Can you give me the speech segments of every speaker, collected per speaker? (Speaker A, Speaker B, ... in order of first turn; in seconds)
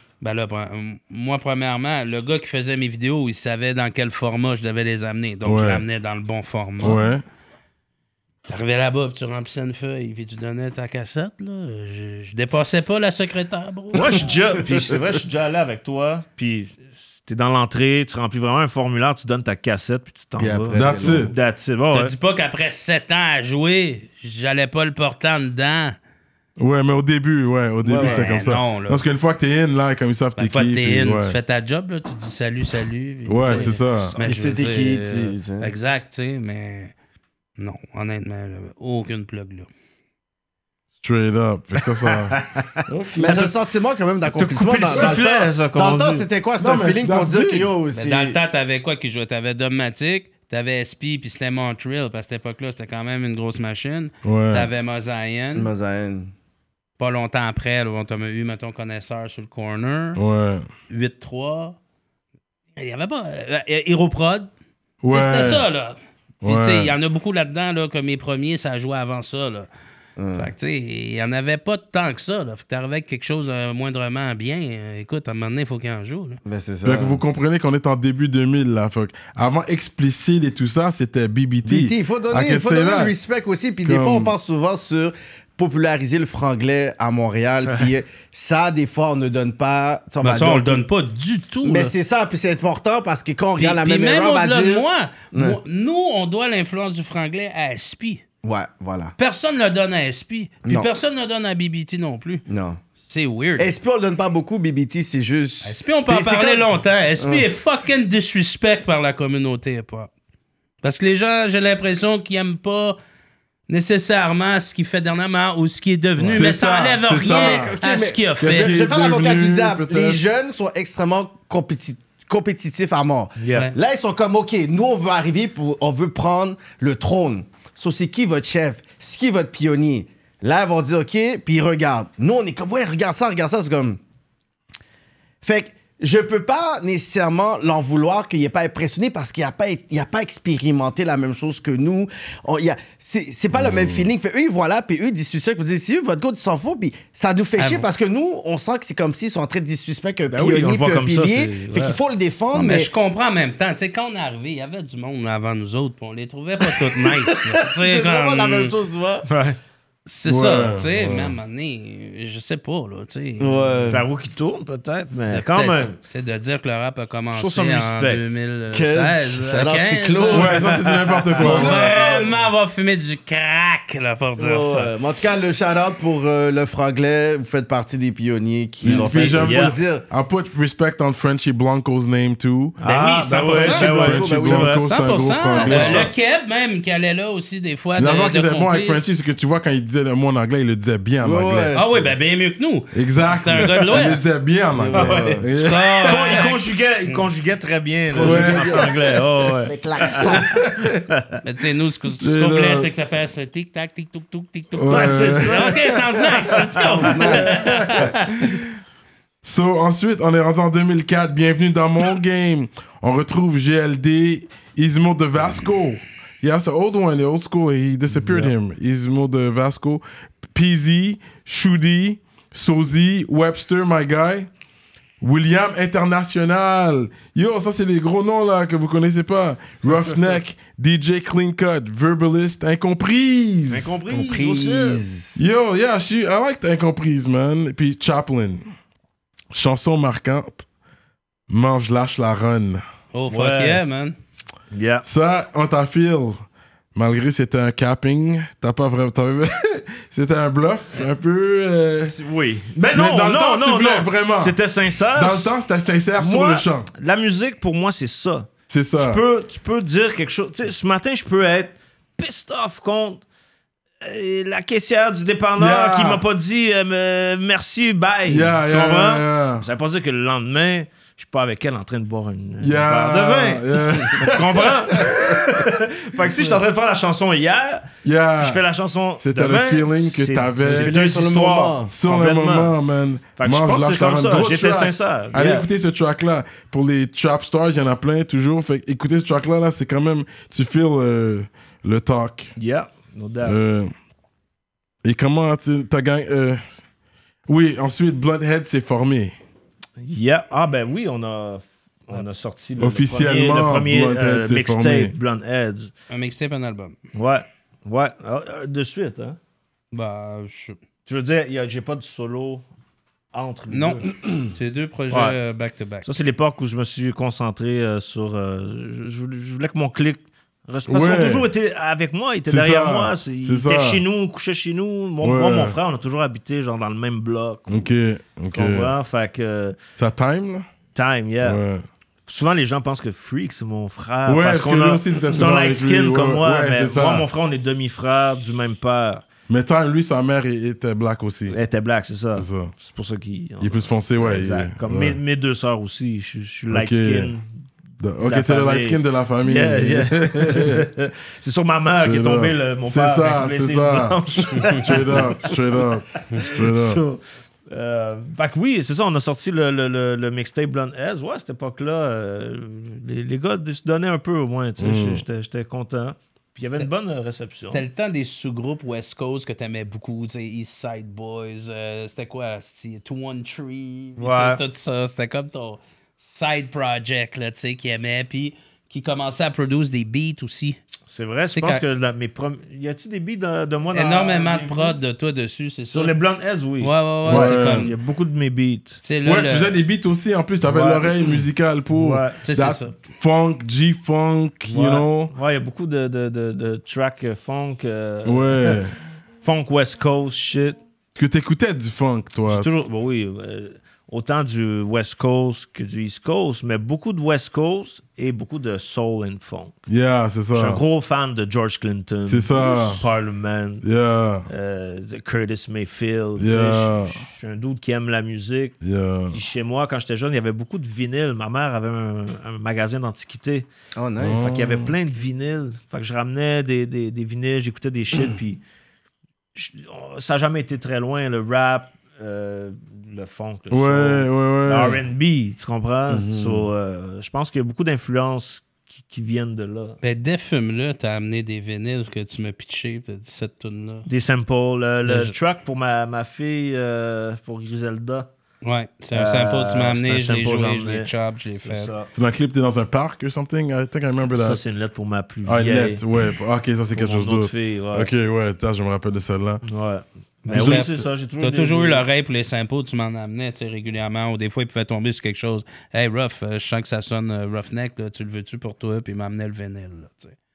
Speaker A: 0.2-7.1, 8.5-14.3, 21.9-25.9, 28.0-29.0, 30.4-36.9, 37.6-39.7, 47.9-55.7, 57.0-60.2, 60.9-61.8, 62.8-64.5, 65.1-69.7, 70.3-76.4, 90.2-91.9, 93.6-98.2, 99.2-102.4, 103.1-103.7, 105.6-110.1, 110.8-113.0, 113.7-118.8, 147.6-147.8, 152.5-158.7, 160.1-163.8, 165.3-174.9, 178.8-179.4, 182.8-184.1, 184.8-189.1, 191.7-194.2, 195.5-197.2, 201.4-208.5, 243.1-244.2, 306.1-307.0, 309.9-310.8, 313.7-316.2, 367.7-380.8, 381.6-381.8, 383.9-386.1, 386.8-387.9, 389.0-389.7, 392.4-392.9, 440.0-444.1, 445.1-445.3, 448.6-451.9, 460.4-470.4
Speaker B: 5.4-5.8, 6.8-7.2, 20.7-21.3, 26.6-31.4, 33.3-34.1, 41.0-43.5, 46.6-47.7, 54.2-54.7, 60.1-60.7, 65.0-65.6, 66.4-66.9, 76.8-83.1, 83.8-84.3, 116.2-117.7, 118.4-120.2, 143.5-144.1, 160.3-161.4, 170.3-172.0, 178.8-182.8, 183.6-186.1, 188.0-191.7, 192.9-196.3, 198.1-198.9, 200.1-200.9, 202.1-202.9, 204.7-206.0, 207.5-208.6, 209.4-224.5, 225.2-234.0, 235.3-238.7, 239.5-240.7, 241.5-242.8, 245.0-252.1, 252.9-256.9, 258.7-259.2, 265.6-266.2, 268.3-269.6, 272.6-275.4, 278.0-278.6, 279.2-280.9, 281.9-292.5, 293.4-293.9, 295.0-296.7, 297.5-299.3, 302.8-305.1, 320.9-321.5, 322.5-324.0, 325.2-325.8, 327.7-328.9, 330.0-330.7, 331.4-331.8, 334.2-337.2, 339.5-341.6, 342.3-342.7, 343.6-345.2, 346.7-347.3, 348.0-350.8, 352.0-357.0, 364.8-365.2, 387.2-387.9, 389.2-395.3, 398.2-398.9, 401.1-402.7, 409.9-410.8, 412.3-413.1, 413.8-414.5, 416.4-417.2, 418.8-419.4, 424.2-424.9, 433.7-435.0, 452.1-454.6, 455.4-459.6, 460.5-460.8
Speaker C: 13.9-22.1, 33.5-34.6, 41.9-43.5, 44.3-46.2, 123.4-123.7, 150.3-152.0, 159.2-159.6, 163.9-166.0, 167.3-168.2, 179.3-179.7, 182.8-184.9, 185.6-186.1, 194.9-201.4, 204.9-205.8, 206.5-207.6, 218.1-218.5, 229.8-230.4, 233.7-235.0, 243.3-243.8, 244.7-245.1, 252.0-255.5, 256.2-263.2, 264.0-282.7, 283.4-285.7, 292.6-293.6, 300.0-305.9, 307.1-309.4, 311.1-312.6, 313.3-314.1, 315.1-315.4, 316.0-327.9, 328.5-329.8, 330.9-331.6, 332.3-339.2, 341.5-347.5, 348.2-367.8, 374.2-374.6, 381.1-385.0, 385.9-389.0, 390.6-391.3, 391.9-392.4, 394.6-398.8, 399.4-400.8, 402.5-409.8, 410.5-413.8, 414.5-418.8, 419.3-423.7, 424.3-428.6, 429.5-440.0, 444.1-448.3, 449.1-451.1, 451.6-452.1, 454.3-456.0, 456.9-458.1, 459.6-462.0
Speaker D: 20.4-21.3, 27.8-28.3, 34.2-35.7, 43.2-48.4, 55.5-56.3, 70.2-70.5, 76.5-77.2, 81.6-90.8, 91.6-95.6, 98.4-99.1, 102.5-102.8, 103.6-107.5, 116.2-134.0, 135.4-152.9, 156.8-159.3, 163.4-164.1, 168.7-172.3, 174.4-180.0, 183.5-184.9, 185.4-186.1, 191.2-192.1, 194.7-195.5, 198.1-198.9, 199.6-200.6, 206.8-208.1, 234.1-235.5, 280.6-281.9, 423.9-424.4, 436.1-436.7